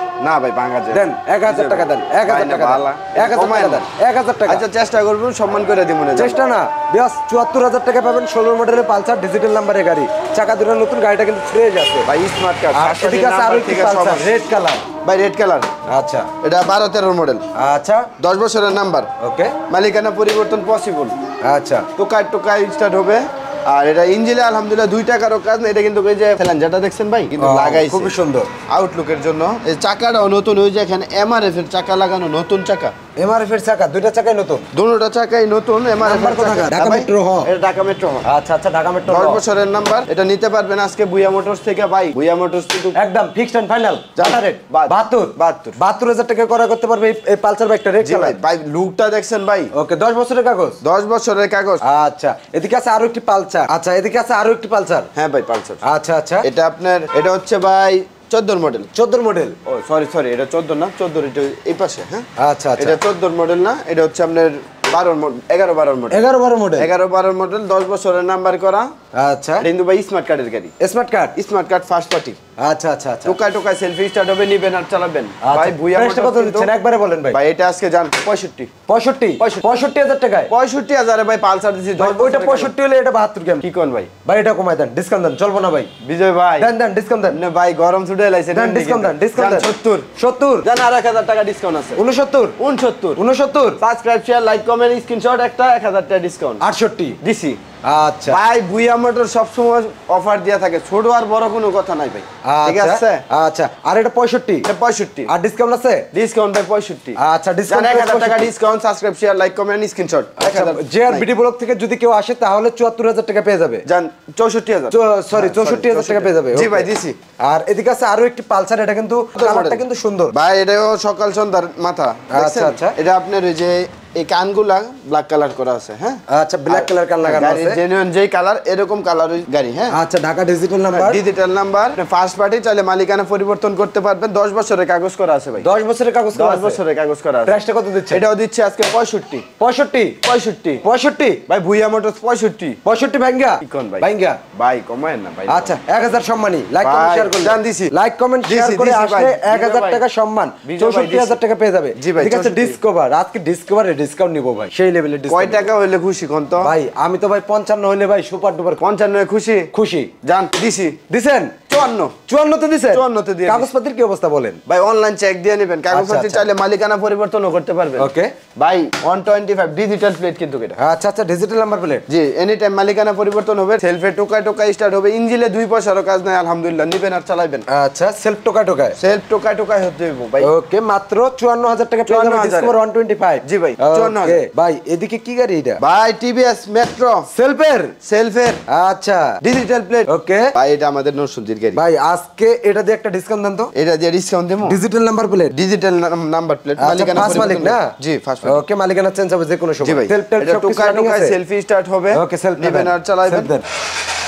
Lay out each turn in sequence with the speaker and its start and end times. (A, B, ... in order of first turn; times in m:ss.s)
0:00.2-0:03.9 A
0:00.9-0:04.6 B
0:04.5-0:06.4 A
0:06.2-0:12.1 B
0:12.0-0:14.3 A
0:12.7-0:14.8 B
0:15.0-0:15.7 A
0:15.9-0:16.3 B
0:16.4-0:17.4 A
0:17.5-0:18.1 B
0:18.2-0:19.1 A
0:19.2-0:19.5 B
0:19.7-0:21.1 A
0:21.4-0:21.9 B
0:22.0-0:28.1 A
0:27.4-0:28.5 B
0:28.7-0:32.9 A
0:33.2-0:34.6 B
0:34.7-0:38.3 A
0:36.0-0:37.5 B
0:38.2-0:39.4 B
0:39.1-0:43.0 A
0:42.9-0:48.4 B
0:44.2-0:45.8 A
0:48.0-0:49.7 A
0:49.7-0:50.8 B
0:50.8-0:51.8 A
0:51.8-0:55.1 B
0:55.1-0:55.8 A
0:55.8-0:56.4 B
0:56.4-0:58.9 A
0:58.9-0:59.6 B
0:59.6-1:02.3 A
1:02.4-1:03.0 B
1:02.8-1:06.2 A
1:06.1-1:06.9 B
1:06.8-1:08.9 A
1:09.1-1:09.6 B
1:09.6-1:10.7 A
1:10.8-1:11.3 B
1:11.3-1:12.4 A
1:12.6-1:13.4 B
1:13.2-1:16.7 A
1:15.4-1:17.4 B
1:17.3-1:18.7 A
1:18.9-1:20.5 B
1:19.4-1:19.6 A
1:20.5-1:22.7 A
1:22.0-1:23.6 B
1:23.6-1:24.1 A
1:24.2-1:25.9 B
1:26.0-1:26.7 A
1:26.6-1:27.4 B
1:27.3-1:30.1 A
1:28.5-1:30.7 B
1:30.6-1:32.0 A
1:32.0-1:32.6 B
1:32.6-1:33.2 A
1:33.2-1:33.8 B
1:33.8-1:36.6 A
1:36.6-1:37.2 B
1:37.2-1:37.6 A
1:37.8-1:38.4 B
1:38.3-1:43.2 A
1:42.4-1:44.7 B
1:44.6-1:45.3 A
1:45.3-1:46.1 B
1:46.1-1:51.2 A
1:47.2-1:48.5 B
1:50.4-1:53.8 B
1:53.8-1:57.2 A
1:54.9-1:56.9 B
1:57.4-2:00.3 B
1:59.3-2:10.0 A
2:02.3-2:02.9 B
2:06.3-2:07.8 B
2:09.9-2:11.2 B
2:11.0-2:15.7 A
2:15.6-2:16.8 B
2:16.3-2:17.6 A
2:17.5-2:18.2 B
2:18.1-2:19.5 A
2:19.6-2:20.2 B
2:20.2-2:20.8 A
2:20.8-2:21.4 B
2:21.5-2:22.8 A
2:22.8-2:24.4 B
2:23.6-2:25.8 A
2:25.5-2:35.7 B
2:26.8-2:27.9 A
2:28.4-2:30.0 A
2:30.6-2:31.4 A
2:31.9-2:32.8 A
2:35.3-2:36.7 A
2:36.6-2:38.8 B
2:38.8-2:39.7 A
2:39.7-2:40.1 B
2:40.2-2:41.0 A
2:41.1-2:41.5 B
2:41.7-2:42.2 A
2:42.3-2:44.6 B
2:42.9-2:43.7 A
2:44.7-2:50.8 A
2:45.9-2:46.4 B
2:48.0-2:48.3 B
2:50.8-2:52.0 B
2:52.1-2:57.6 A
2:57.7-2:59.0 B
2:59.0-3:00.5 A
3:00.4-3:05.8 B
3:02.1-3:02.7 A
3:03.4-3:04.4 A
3:05.8-3:07.3 A
3:07.3-3:07.9 B
3:08.0-3:08.6 A
3:08.7-3:09.4 B
3:09.4-3:11.8 A
3:10.1-3:10.5 B
3:11.7-3:13.7 B
3:13.7-3:14.8 A
3:14.6-3:15.5 B
3:15.5-3:18.6 A
3:16.8-3:17.9 B
3:18.4-3:21.4 B
3:19.8-3:23.5 A
3:22.1-3:23.6 B